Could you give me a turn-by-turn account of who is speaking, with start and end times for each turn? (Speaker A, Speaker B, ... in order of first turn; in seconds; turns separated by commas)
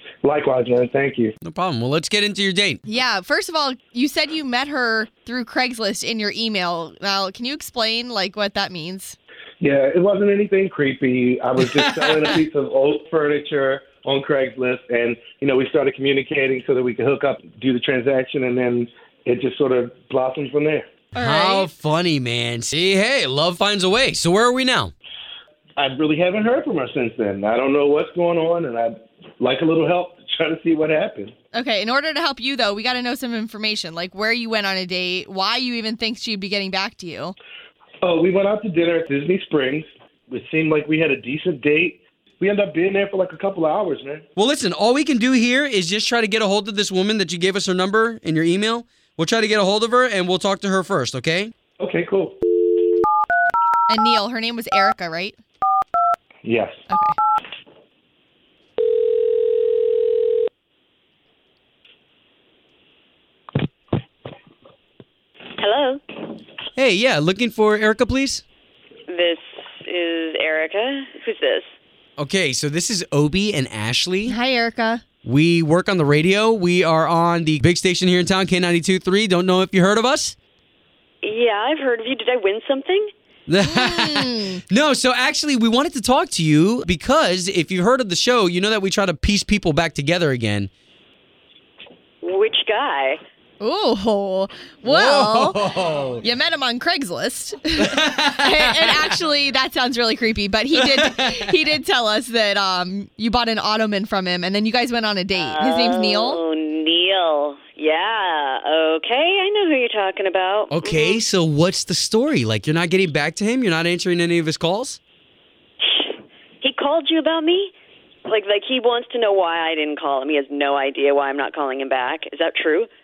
Speaker A: 0.2-1.3, Speaker B: 1.4-2.8, Speaker C: 2.9-9.2, Speaker A: 9.6-20.9, Speaker B: 11.6-12.4, Speaker C: 21.2-21.7, Speaker B: 21.2-24.9, Speaker A: 25.8-31.3, Speaker C: 31.5-37.4, Speaker A: 38.0-44.2, Speaker B: 44.4-51.5, Speaker A: 51.8-52.4, Speaker C: 53.9-55.4, Speaker A: 56.4-56.8, Speaker C: 56.9-57.2, Speaker D: 65.6-66.0, Speaker B: 66.8-68.4, Speaker D: 69.1-71.7, Speaker B: 72.2-74.4, Speaker C: 74.3-75.0, Speaker B: 75.2-80.4, Speaker D: 81.2-83.1, Speaker B: 83.5-90.7, Speaker C: 83.6-84.6, Speaker D: 92.2-93.2, Speaker C: 93.6-95.6, Speaker B: 94.8-96.2, Speaker C: 96.2-106.4, Speaker B: 97.8-99.0, Speaker B: 100.8-101.4, Speaker D: 105.3-111.2, Speaker B: 110.7-115.0, Speaker D: 115.8-117.7, Speaker D: 118.3-122.9